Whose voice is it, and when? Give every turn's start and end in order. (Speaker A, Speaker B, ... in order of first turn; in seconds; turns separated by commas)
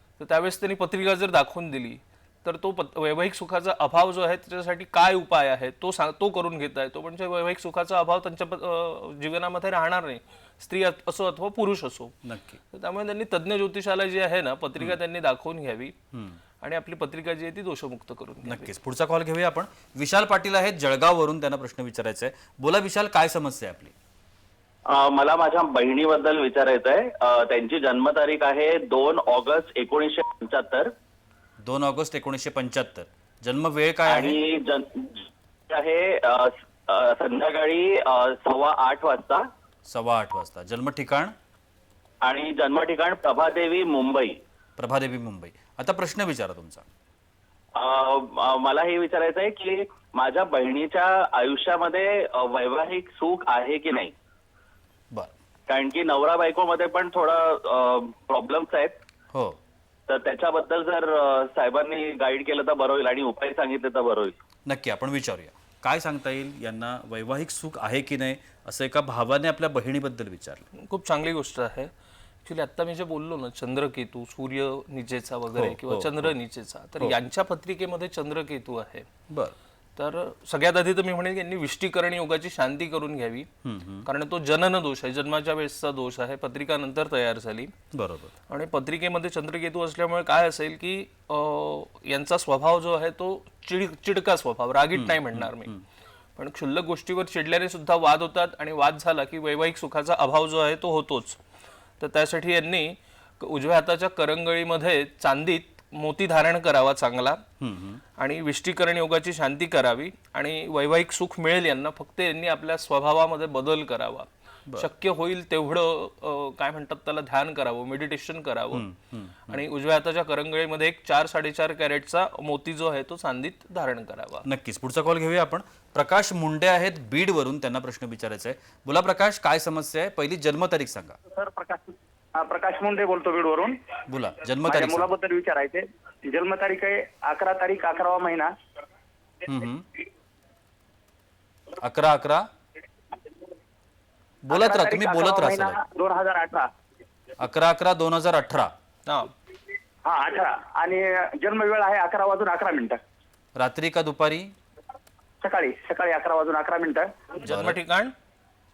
Speaker A: 0.2-12.2, Speaker B: 12.2-12.6, Speaker A: 12.7-15.9, Speaker B: 16.1-16.4, Speaker A: 16.6-18.7, Speaker B: 18.4-23.9, Speaker C: 24.9-30.9, Speaker B: 31.6-34.4, Speaker C: 34.1-39.5, Speaker B: 39.9-41.3, Speaker C: 42.2-44.4, Speaker B: 44.8-46.9, Speaker C: 47.8-54.1, Speaker C: 55.7-59.0, Speaker B: 59.3-59.6, Speaker C: 60.1-64.4, Speaker B: 64.7-70.7, Speaker A: 70.8-71.9, Speaker A: 72.5-79.1, Speaker B: 75.5-76.3, Speaker B: 79.3-79.6, Speaker A: 80.0-83.5, Speaker B: 83.6-84.1, Speaker A: 84.1-87.7, Speaker B: 87.9-88.3, Speaker A: 88.5-95.7, Speaker B: 94.9-95.8, Speaker A: 96.4-101.4, Speaker A: 102.0-107.4, Speaker B: 107.6-108.0, Speaker A: 108.2-118.8, Speaker B: 118.7-119.6, Speaker A: 119.5-124.5, Speaker B: 124.5-131.2, Speaker D: 131.3-133.8, Speaker B: 134.1-135.1, Speaker D: 134.7-138.5, Speaker B: 139.5-139.9, Speaker B: 141.8-142.5, Speaker B: 144.4-145.8, Speaker D: 144.5-146.7, Speaker B: 147.4-148.7, Speaker A: 149.1-149.3, Speaker D: 150.1-153.0, Speaker B: 153.6-154.5, Speaker D: 155.4-157.2, Speaker A: 157.4-158.1, Speaker B: 157.4-157.8